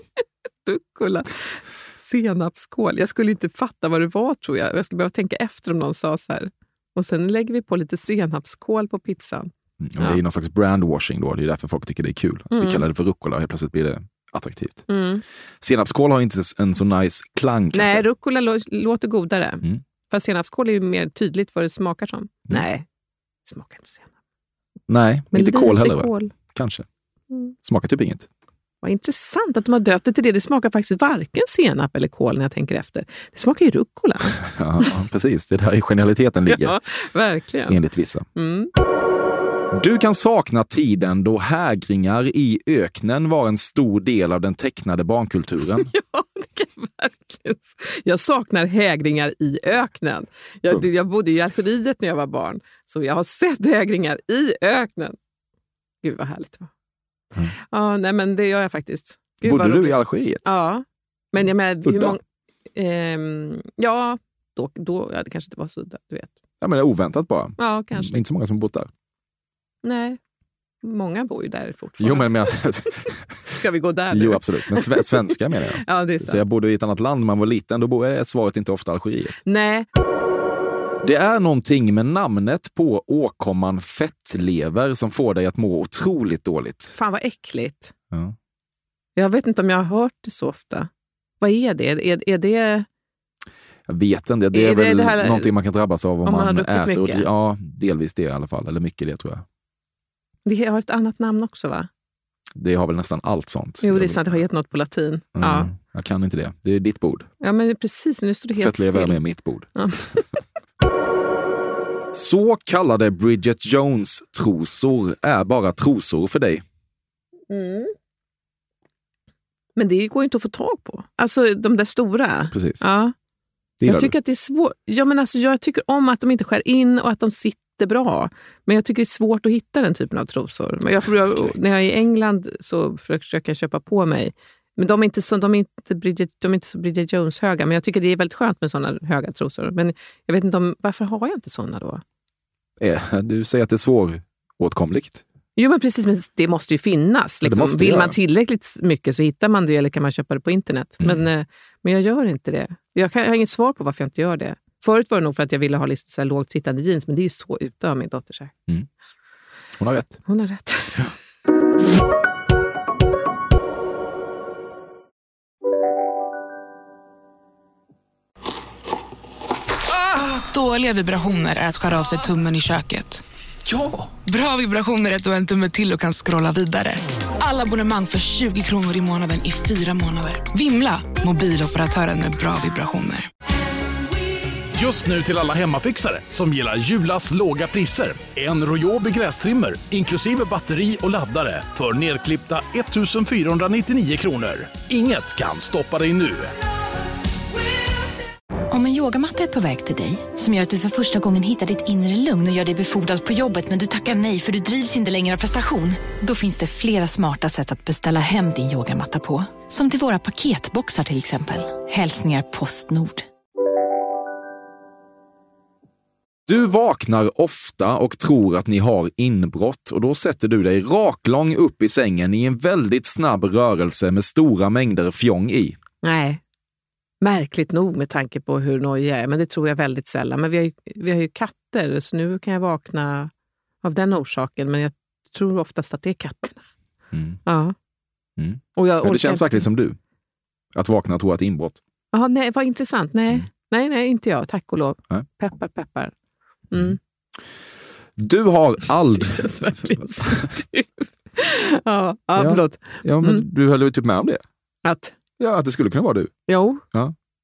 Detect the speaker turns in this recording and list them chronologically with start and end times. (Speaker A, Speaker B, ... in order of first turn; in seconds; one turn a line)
Speaker A: 0.7-10.2
Speaker B: 9.8-14.9
Speaker A: 12.5-12.8
Speaker A: 14.9-15.2
Speaker B: 15.6-18.0
Speaker A: 17.7-22.9
Speaker A: 23.4-24.1
Speaker B: 24.9-26.9
Speaker A: 25.3-26.3
Speaker B: 27.6-28.3
Speaker A: 28.8-34.9
Speaker B: 34.4-36.8
Speaker A: 36.5-37.8
Speaker B: 37.7-38.3
Speaker A: 38.4-38.7
Speaker B: 39.7-45.9
Speaker A: 45.9-55.2
Speaker A: 56.0-56.7
Speaker A: 57.6-62.2
Speaker B: 59.4-60.4
Speaker B: 61.9-62.2
Speaker A: 62.8-66.3
Speaker B: 66.6-68.9
Speaker A: 67.6-68.2
Speaker A: 69.8-70.2
Speaker A: 70.8-76.4
Speaker B: 72.0-73.5
Speaker B: 74.1-79.4
Speaker A: 79.5-79.9
Speaker B: 81.0-87.0
Speaker A: 87.0-87.9
Speaker A: 89.2-90.9
Speaker A: 91.4-92.9
Speaker B: 93.9-99.4
Speaker A: 94.5-95.5
Speaker A: 96.2-97.3
Speaker A: 100.5-101.9
Speaker B: 102.6-104.4
Speaker A: 103.8-105.7
Speaker B: 105.4-107.3
Speaker A: 107.4-109.2
Speaker B: 108.6-109.7
Speaker A: 109.8-110.2
Speaker B: 112.1-116.6
Speaker A: 117.5-117.9
Speaker A: 119.8-123.1
Speaker B: 122.5-122.8
Speaker B: 123.8-124.1
Speaker A: 123.8-142.0
Speaker B: 142.8-145.2
Speaker A: 145.6-158.5
Speaker B: 147.4-148.2
Speaker B: 159.8-160.2
Speaker A: 160.3-161.1
Speaker C: 170.1-173.2
Speaker C: 174.1-183.3
Speaker D: 184.8-196.5
Speaker E: 198.7-213.3
Speaker B: 216.5-225.8
Speaker A: 226.0-226.4
Speaker A: 227.2-233.3
Speaker A: 233.8-236.6
Speaker B: 237.1-237.4
Speaker A: 237.5-237.8
Speaker B: 238.4-240.0
Speaker A: 238.8-239.7
Speaker B: 240.8-241.8
Speaker A: 242.1-246.1
Speaker A: 246.7-247.0
Speaker B: 248.2-250.5
Speaker A: 249.2-253.4
Speaker B: 252.4-254.4
Speaker A: 254.8-255.2
Speaker B: 255.4-256.3
Speaker A: 256.5-256.8